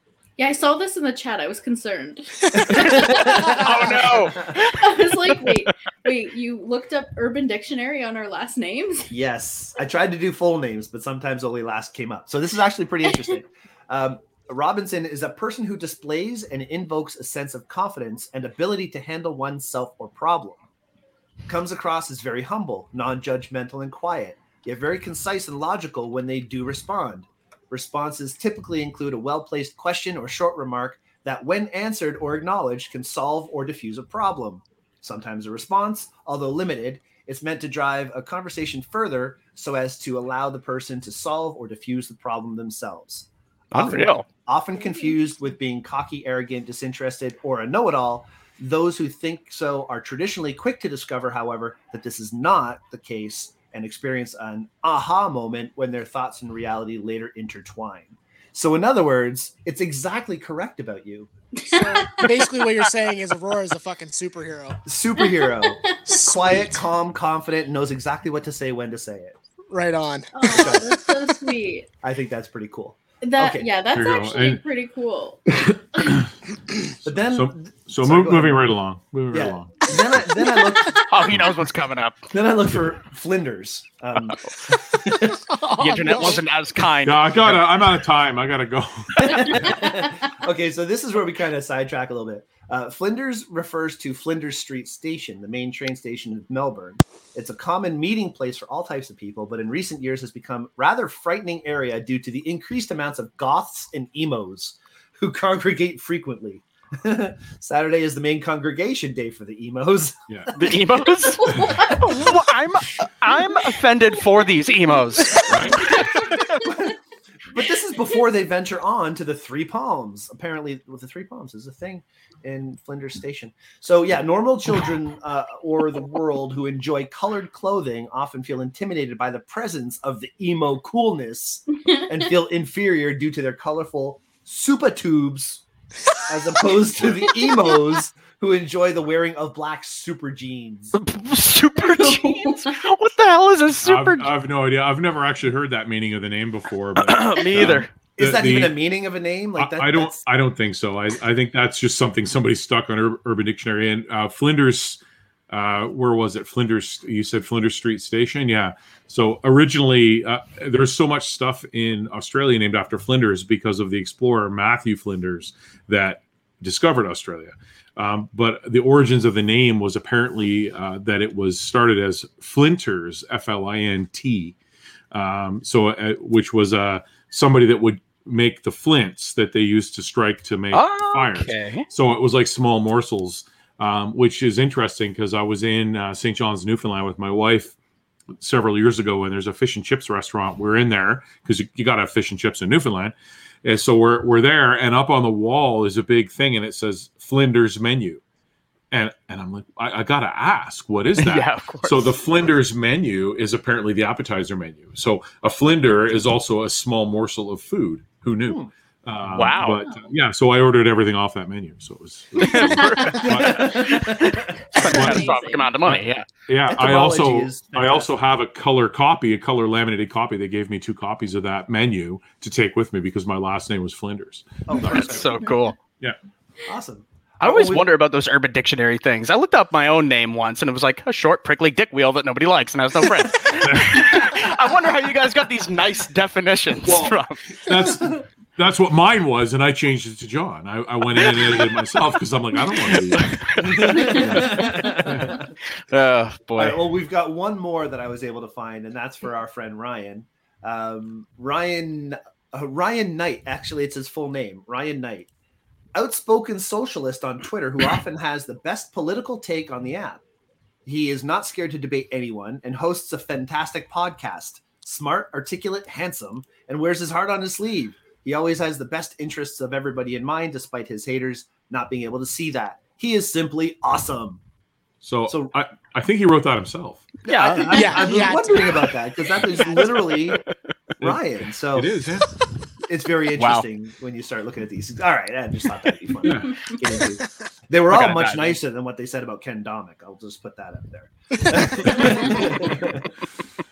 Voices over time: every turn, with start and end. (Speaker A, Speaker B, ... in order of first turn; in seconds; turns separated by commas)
Speaker A: 0.4-3.6, Speaker B: 2.5-4.7, Speaker C: 2.7-4.8, Speaker A: 4.4-9.1, Speaker B: 9.1-20.6, Speaker B: 21.5-61.3, Speaker C: 43.7-44.2, Speaker A: 44.8-45.2, Speaker A: 61.6-62.4, Speaker D: 61.7-64.8, Speaker B: 64.8-69.4, Speaker A: 65.3-66.2, Speaker D: 66.1-66.8, Speaker D: 69.7-70.9, Speaker A: 70.3-71.9, Speaker B: 70.4-71.0, Speaker B: 72.0-73.7, Speaker A: 73.2-75.4, Speaker E: 73.9-74.6, Speaker E: 76.0-76.3, Speaker B: 77.0-78.7, Speaker E: 77.1-79.9, Speaker B: 79.3-81.0, Speaker C: 81.1-82.3, Speaker B: 82.3-85.5, Speaker D: 85.5-86.4, Speaker C: 85.8-87.6, Speaker E: 87.0-89.8, Speaker B: 89.2-110.2, Speaker C: 110.5-116.5, Speaker A: 111.2-112.3, Speaker E: 111.5-111.8, Speaker A: 113.3-113.8, Speaker A: 115.3-116.8, Speaker E: 115.5-115.9, Speaker B: 116.6-117.0, Speaker B: 117.5-135.7, Speaker B: 136.3-140.9, Speaker C: 140.9-144.3, Speaker A: 141.9-142.7, Speaker E: 143.8-148.8, Speaker C: 147.0-147.9, Speaker B: 148.2-150.2, Speaker E: 149.6-174.6, Speaker E: 175.1-187.8, Speaker C: 180.7-181.9, Speaker E: 188.4-198.2, Speaker E: 198.9-214.1, Speaker C: 201.2-202.1, Speaker B: 208.4-208.7, Speaker C: 209.3-209.8, Speaker C: 212.4-216.3, Speaker B: 213.2-214.5, Speaker A: 214.7-215.8, Speaker E: 214.8-215.3, Speaker E: 215.9-225.4, Speaker B: 216.7-218.2, Speaker B: 224.7-225.4, Speaker C: 224.8-225.8, Speaker B: 226.7-227.9, Speaker C: 227.4-237.4, Speaker E: 233.6-234.5, Speaker E: 237.7-243.3, Speaker C: 241.2-241.7, Speaker C: 242.8-244.9, Speaker B: 243.6-245.5, Speaker E: 244.2-245.4, Speaker C: 245.8-246.8, Speaker B: 246.6-255.3, Speaker B: 255.9-260.2, Speaker B: 260.9-274.4, Speaker E: 275.0-277.1, Speaker B: 277.2-280.4, Speaker C: 277.3-278.1, Speaker D: 277.7-278.9, Speaker B: 281.0-282.0, Speaker E: 281.7-282.3, Speaker B: 282.9-293.1, Speaker C: 283.4-283.7, Speaker E: 286.2-286.6, Speaker C: 287.9-288.6, Speaker E: 291.8-292.5